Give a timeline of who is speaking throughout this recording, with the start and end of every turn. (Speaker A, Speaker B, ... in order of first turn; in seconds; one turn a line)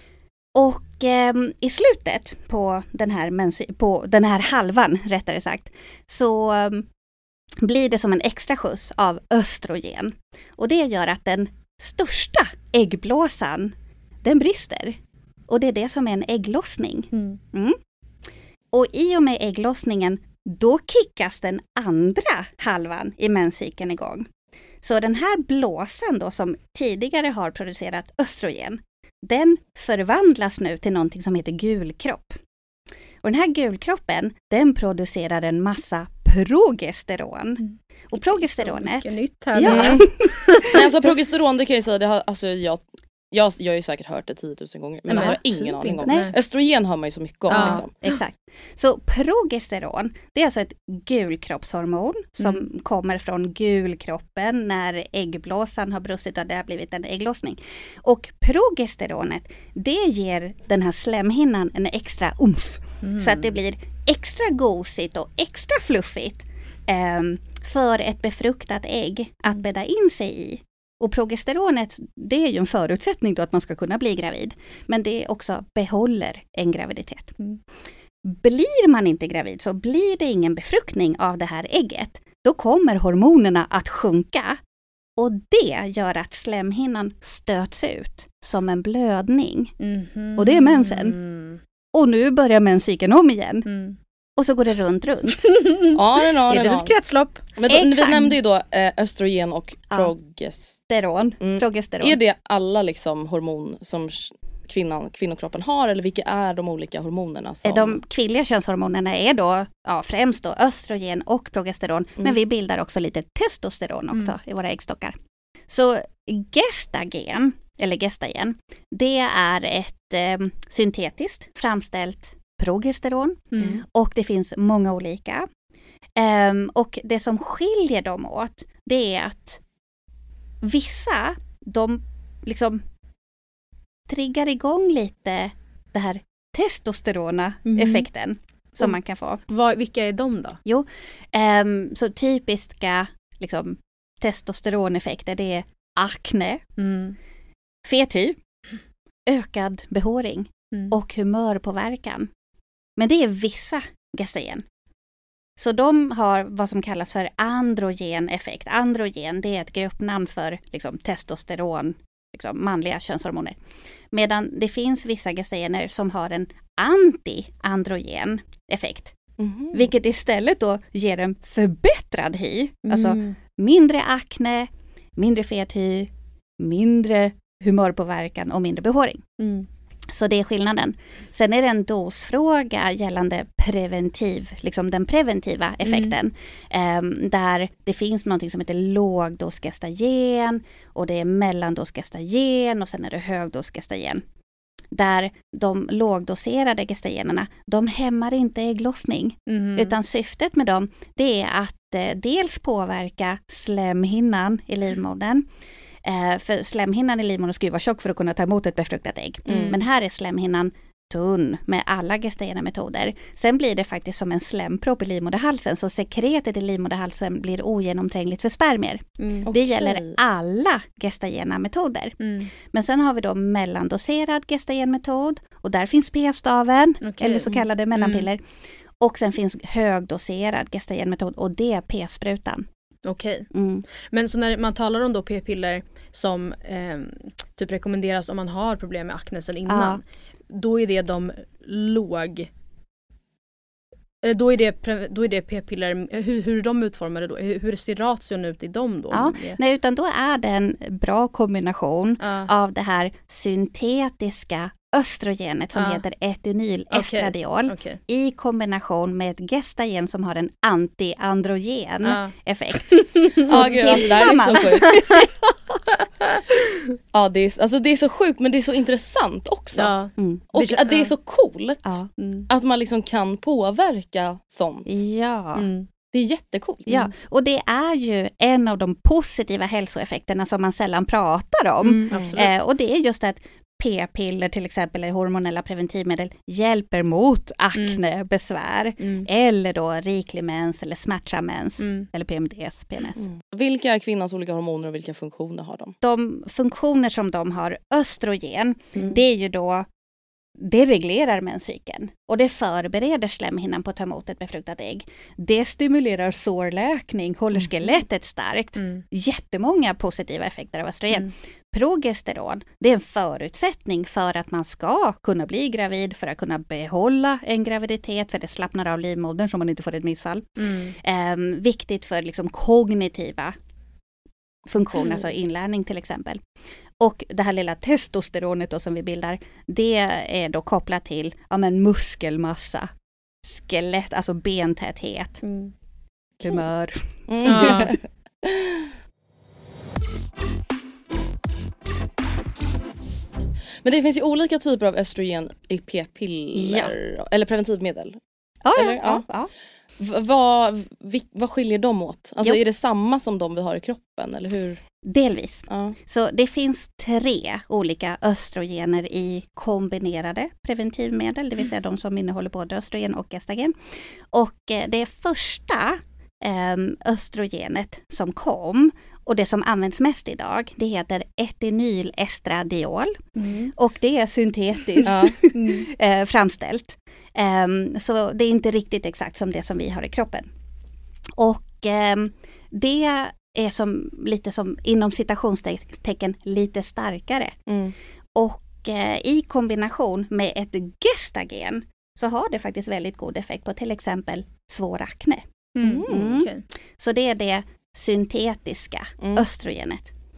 Speaker A: 0.5-6.9
Speaker A: 7.6-17.8
Speaker B: 17.1-17.4
Speaker A: 18.7-24.3
Speaker A: 24.8-32.4
Speaker A: 33.2-40.8
Speaker B: 37.6-40.8
Speaker C: 39.6-40.0
Speaker C: 40.6-47.9
Speaker B: 45.1-46.3
Speaker A: 45.1-45.4
Speaker A: 46.0-46.3
Speaker B: 47.5-48.2
Speaker A: 47.5-77.3
Speaker B: 63.0-63.5
Speaker A: 78.2-84.6
Speaker A: 85.2-89.7
Speaker B: 89.8-91.6
Speaker A: 90.3-91.2
Speaker A: 91.9-93.7
Speaker B: 93.7-94.0
Speaker A: 94.4-95.6
Speaker B: 95.4-97.4
Speaker C: 95.9-96.9
Speaker C: 97.6-100.8
Speaker A: 97.7-98.3
Speaker A: 100.9-102.2
Speaker C: 101.4-108.0
Speaker A: 107.6-115.2
Speaker A: 115.7-125.5
Speaker B: 123.5-123.8
Speaker A: 126.2-129.6
Speaker A: 130.6-132.8
Speaker A: 134.1-139.4
Speaker B: 137.7-138.1
Speaker B: 139.5-140.6
Speaker A: 140.6-146.6
Speaker B: 146.8-147.2
Speaker A: 147.8-148.4
Speaker A: 149.2-152.3
Speaker A: 153.0-154.6
Speaker A: 155.6-163.6
Speaker A: 164.1-169.2
Speaker C: 169.4-169.9
Speaker A: 169.7-179.2
Speaker B: 172.9-173.4
Speaker B: 179.4-179.7
Speaker A: 180.1-194.2
Speaker B: 185.8-186.1
Speaker A: 194.9-205.5
Speaker B: 199.5-199.9
Speaker A: 206.0-228.4
Speaker C: 209.5-209.8
Speaker B: 209.5-209.8
Speaker B: 219.2-219.5
Speaker C: 219.4-220.2
Speaker B: 222.2-222.5
Speaker B: 227.0-228.3
Speaker A: 229.0-232.7
Speaker B: 233.1-242.5
Speaker A: 233.5-233.8
Speaker A: 239.7-240.0
Speaker B: 244.2-249.6
Speaker A: 249.1-265.2
Speaker B: 252.2-252.5
Speaker B: 255.8-256.0
Speaker B: 256.9-258.0
Speaker B: 262.0-262.3
Speaker B: 262.9-266.8
Speaker C: 263.4-265.1
Speaker C: 267.1-269.9
Speaker B: 269.8-271.1
Speaker A: 270.2-270.4
Speaker C: 270.5-274.9
Speaker B: 272.2-272.5
Speaker A: 274.9-275.7
Speaker B: 275.5-275.9
Speaker C: 276.1-277.1
Speaker A: 276.9-293.2
Speaker B: 281.8-282.6
Speaker C: 282.1-282.4
Speaker B: 287.8-288.0
Speaker B: 289.0-289.3
Speaker B: 291.8-292.1
Speaker C: 293.2-295.9
Speaker A: 296.0-299.9
Speaker B: 298.9-299.2
Speaker A: 300.6-323.6
Speaker B: 308.8-309.0
Speaker B: 320.6-320.9
Speaker A: 324.6-326.4
Speaker A: 327.0-332.9
Speaker A: 333.4-335.4
Speaker B: 335.4-335.7
Speaker A: 336.4-337.9
Speaker C: 337.3-338.9
Speaker B: 337.4-337.9
Speaker C: 343.8-348.2
Speaker A: 346.5-346.9
Speaker A: 348.6-349.5
Speaker C: 348.7-349.2
Speaker C: 350.0-354.8
Speaker A: 355.0-363.8
Speaker C: 355.7-355.9
Speaker A: 364.3-373.2
Speaker B: 373.4-373.7
Speaker A: 373.7-380.5
Speaker C: 375.0-375.4
Speaker B: 375.0-375.9
Speaker A: 381.4-387.5
Speaker C: 387.7-387.9
Speaker A: 388.4-395.5
Speaker B: 395.8-396.6
Speaker C: 395.8-396.5
Speaker A: 396.0-400.1
Speaker C: 399.2-399.4